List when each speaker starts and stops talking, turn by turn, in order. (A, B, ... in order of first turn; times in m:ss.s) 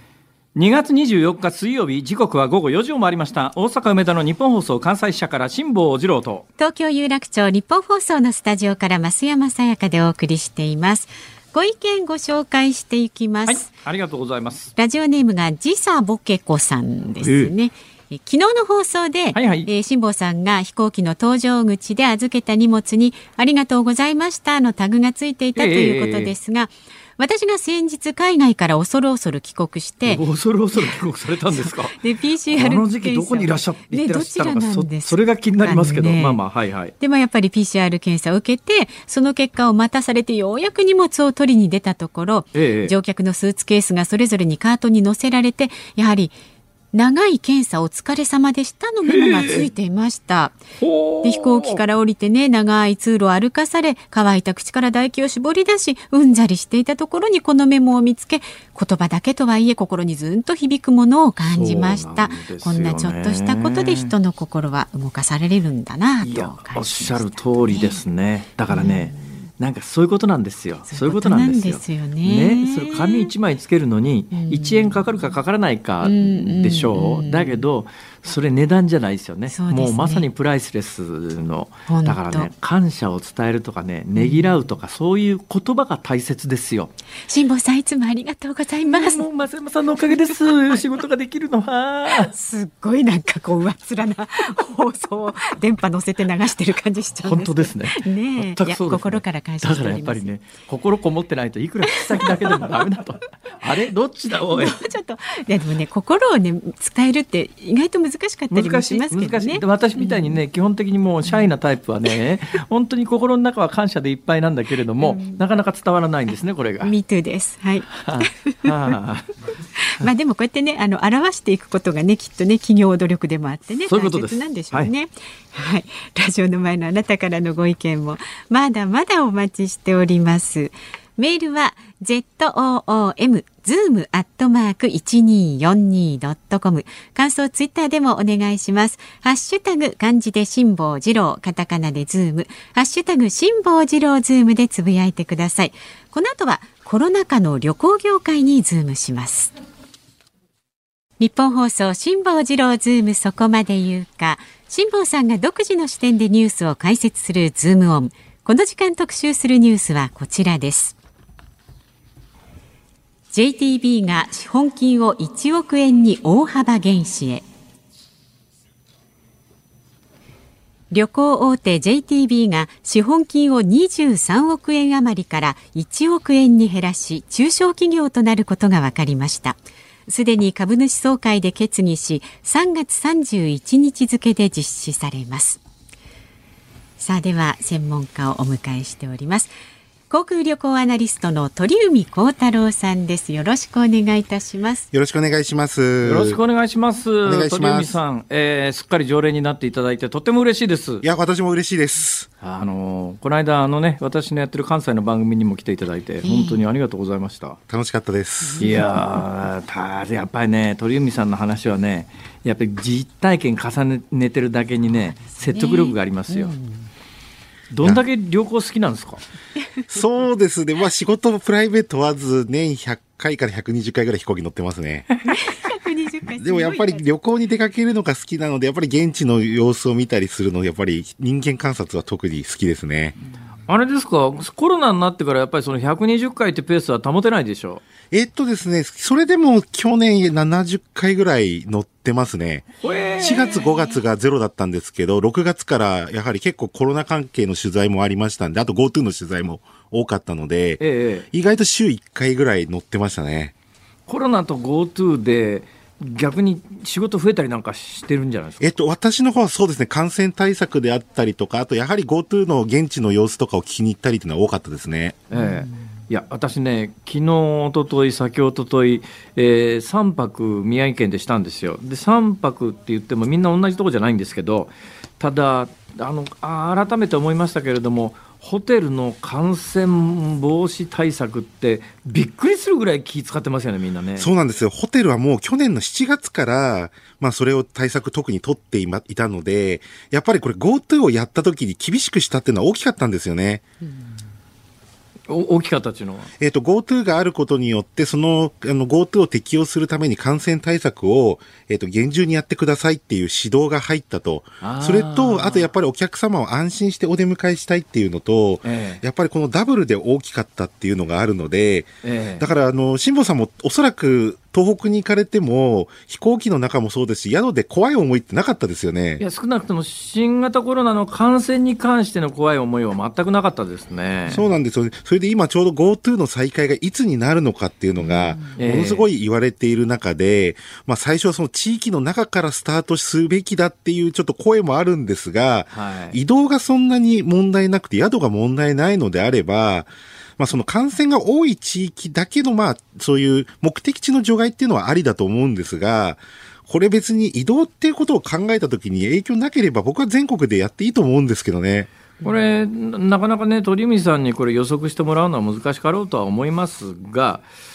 0:00.5-0:06.4 A
0:06.6-0:13.7 B
0:13.5-0:14.7 A
0:14.8-0:30.2 B
0:17.2-0:17.5 A
0:19.3-0:19.7 A
0:25.5-0:26.3 A
0:30.0-0:32.0 A
0:31.6-0:36.4 B
0:32.5-0:36.9 A
0:37.0-0:46.4 B
0:42.5-0:42.9 A
0:46.9-0:50.6 B
0:49.0-0:49.7 A
0:50.8-0:51.8 A
0:51.2-1:08.0 B
1:01.4-1:04.1 A
1:06.2-1:26.9 A
1:08.7-1:09.2 B
1:10.9-1:13.3 B
1:14.3-1:15.0 B
1:16.0-1:17.6 B
1:19.5-1:20.3 B
1:21.9-1:22.5 B
1:24.2-1:24.5 B
1:27.3-1:29.2 B
1:28.9-1:32.3 A
1:32.2-1:40.3 B
1:37.2-1:44.8 A
1:42.2-1:42.6 B
1:44.5-1:50.4 B
1:48.5-1:56.9 A
1:55.0-1:55.4 B
1:56.8-1:58.7 B
1:57.9-1:59.3 A
1:59.8-2:29.5 B
2:03.8-2:04.9 A
2:31.2-2:41.0 B
2:43.3-2:47.4 B
2:50.9-3:05.6 B
3:07.0-3:09.5 B
3:10.1-3:14.9 B
3:14.9-3:16.4 C
3:16.0-3:21.0 A
3:17.2-3:18.0 C
3:21.0-3:22.3 C
3:22.4-3:27.6 A
3:26.2-3:26.6 B
3:27.7-3:28.8 C
3:28.5-3:28.7 B
3:28.6-3:36.5 A
3:35.3-3:36.9 B
3:37.7-3:39.2 A
3:39.9-3:45.1 C
3:45.3-3:47.0 B
3:46.3-3:53.2 C
3:53.7-3:57.8 A
3:58.1-4:13.5 C
4:02.8-4:03.6 A
4:10.8-4:11.3 A
4:14.1-4:18.7 A
4:18.6-4:25.2 C
4:25.3-4:44.3 A
4:44.2-4:53.6 C
4:55.3-4:56.3 A
4:56.4-5:19.2 C
5:04.6-5:05.7 A
5:08.6-5:09.0 A
5:12.0-5:12.4 A
5:19.2-5:24.4 A
5:24.3-5:51.9 C
5:28.5-5:29.0 A
5:35.7-5:36.2 A
5:52.2-5:57.4 A